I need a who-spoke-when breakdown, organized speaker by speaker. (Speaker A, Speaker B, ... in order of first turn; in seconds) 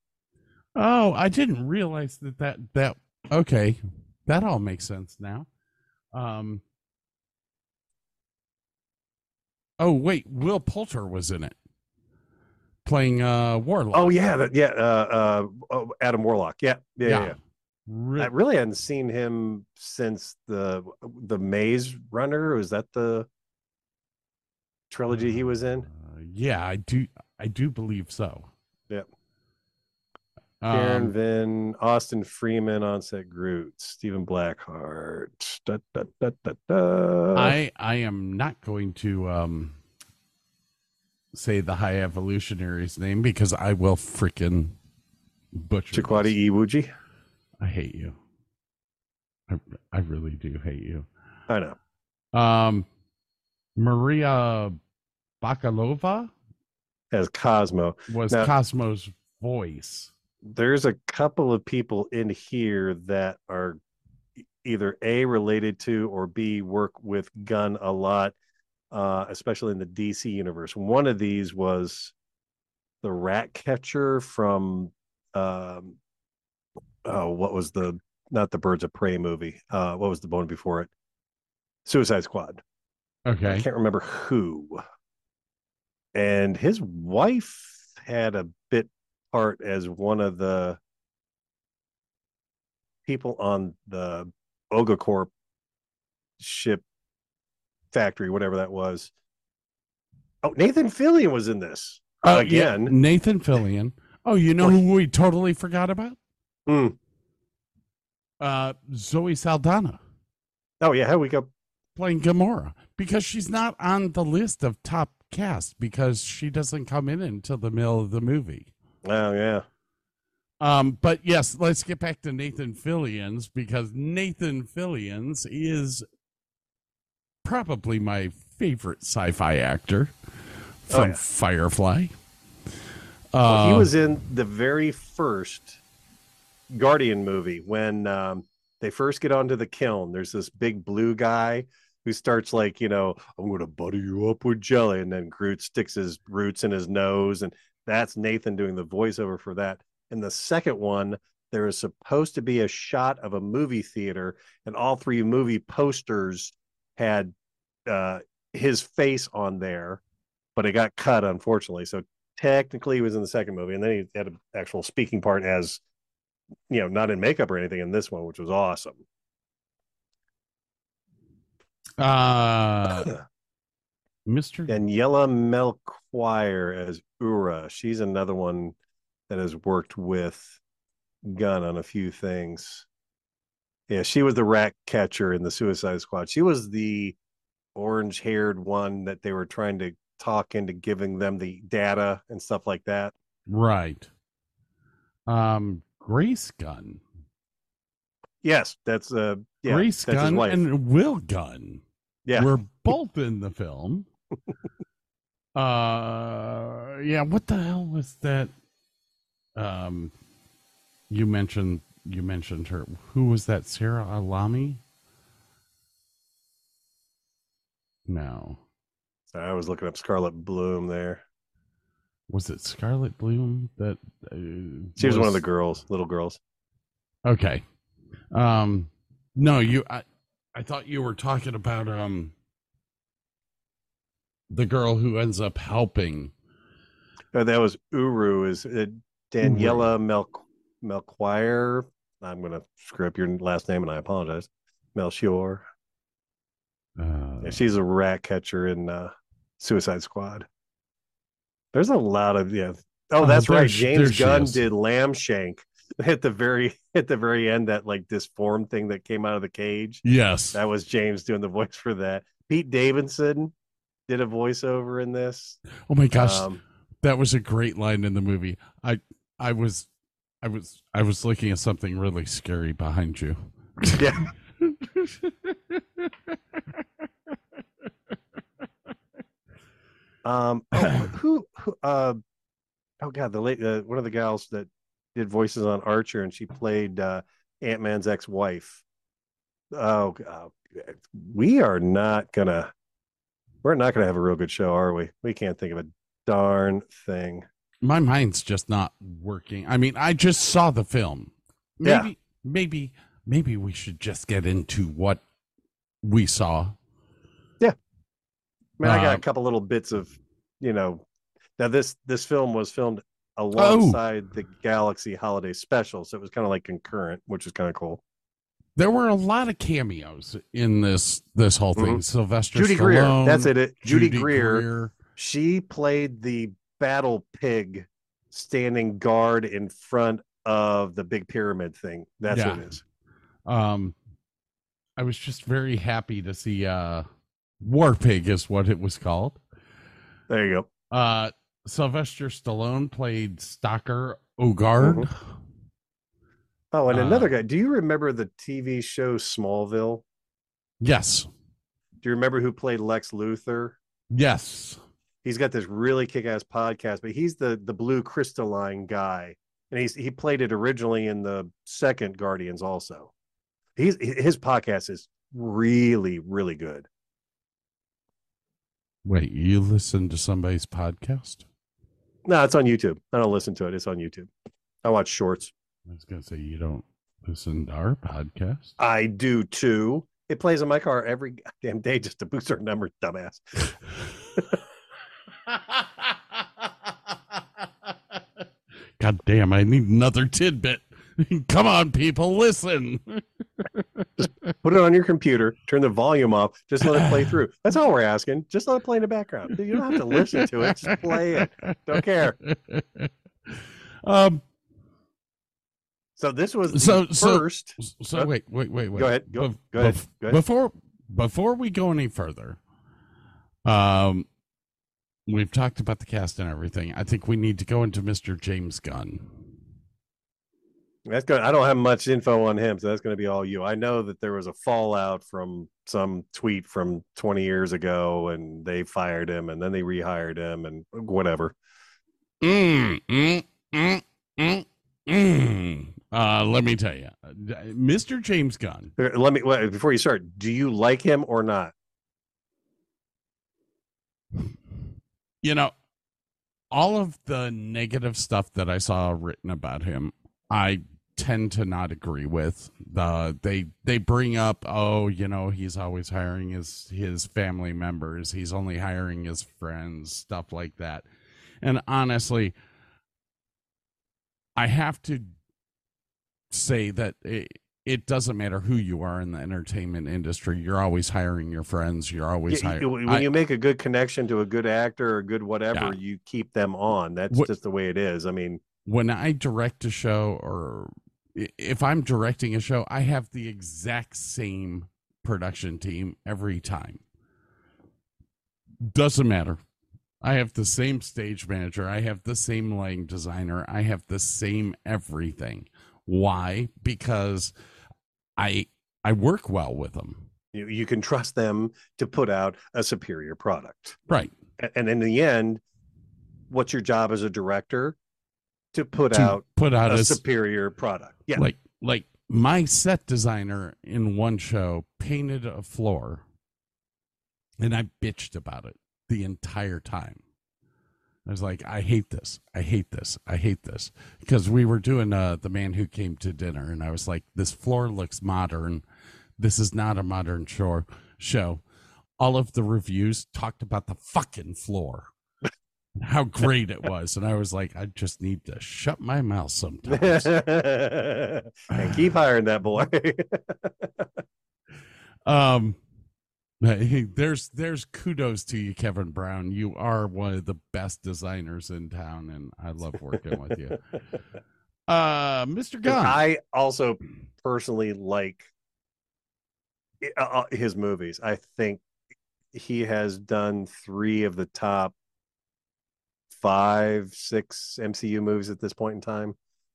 Speaker A: 0.8-5.5, 6.1-6.6, 9.8-11.6, 12.8-14.2, 17.1-18.3, 25.9-28.5, 30.6-31.1, 37.4-39.8, 41.3-44.8, 45.5-46.4, 47.6-48.2, 49.5-51.1, 52.3-52.9, 53.8-54.8, 55.4-56.3, 58.1-60.1, 83.3-83.7, 102.2-106.2, 108.4-110.0, 112.0-118.7, 120.6-126.1, 127.4-130.1, 130.9-132.2, 133.3-133.9, 172.0-173.2, 174.3-174.8, 193.5-194.1, 195.3-197.0, 199.7-201.8, 202.3-204.1, 205.6-208.5, 209.6-210.1, 211.1-214.8, 218.1-218.6, 222.3-225.4, 227.2-227.6, 228.3-232.3, 234.5-236.3, 239.4-239.9, 247.0-247.6, 253.2-254.6, 260.1-260.6, 265.9-266.5, 267.0-269.9, 270.4-276.1, 297.8-305.2, 306.0-306.8, 308.8-309.2, 313.6-314.0, 318.8-324.9, 332.3-332.7, 333.5-334.0, 335.0-337.1, 337.6-339.4, 340.9-345.2, 346.9-347.3, 350.8-351.3, 354.1-354.8, 369.1-371.5, 375.9-378.7, 385.5-388.2, 389.0-394.2, 396.8-397.3, 399.7-401.4, 402.0-404.4, 406.7-412.6, 413.6-414.3, 415.3-419.4, 432.4-438.9, 445.4-445.7, 446.7-461.1, 461.6-462.6, 464.6-465.3, 466.5-473.3, 478.9-487.0, 488.8-489.6, 490.2-497.5, 498.4-500.3, 504.1-504.4, 509.1-510.2, 511.4-516.2, 517.6-520.2, 521.3-528.8, 529.4-531.6, 532.2-535.1, 536.0-540.3, 541.7-542.1, 545.2-545.8, 546.6-553.9, 554.9-556.2
Speaker B: 13.9-17.4, 18.2-23.3, 24.9-25.9, 30.7-37.6, 45.9-46.9, 51.5-51.8, 57.1-58.5, 60.5-63.8, 64.6-68.3, 68.9-72.1, 73.0-76.0, 77.0-80.9, 81.9-82.6, 83.5-84.8, 86.2-90.8, 93.1-95.3, 96.4-96.8, 97.9-99.1, 100.4-102.9, 106.7-107.0, 110.8-111.5, 119.0-119.7, 130.9-131.2, 133.4-135.8, 136.7-157.3, 157.9-160.0, 160.6-165.8, 166.7-169.0, 174.7-178.8, 179.3-180.6, 181.2-182.9, 183.9-187.2, 187.8-193.1, 198.4-200.6, 219.3-221.2, 225.0-226.4, 237.3-245.7, 247.4-250.5, 251.7-260.0, 260.5-263.5, 264.1-265.6, 266.2-266.6, 274.0-274.3, 280.2-282.2, 283.0-288.8, 289.7-292.7, 293.6-297.5, 301.8-302.1, 308.8-311.1, 311.6-318.0, 321.8-322.0, 322.5-332.8, 340.3-340.7, 344.8-345.1, 346.7-350.0, 352.0-353.8, 355.2-363.1, 363.8-366.9, 372.3-374.3, 374.8-375.5, 378.8-383.7, 394.2-402.4, 406.2-408.3, 408.9-410.4, 421.1-431.6, 439.0-441.7, 472.5-478.6, 500.5-504.0, 504.6-505.6, 506.5-508.0, 508.7-511.5, 539.9-544.1, 555.9-558.5, 560.0-561.8, 562.5-564.9, 566.3-569.4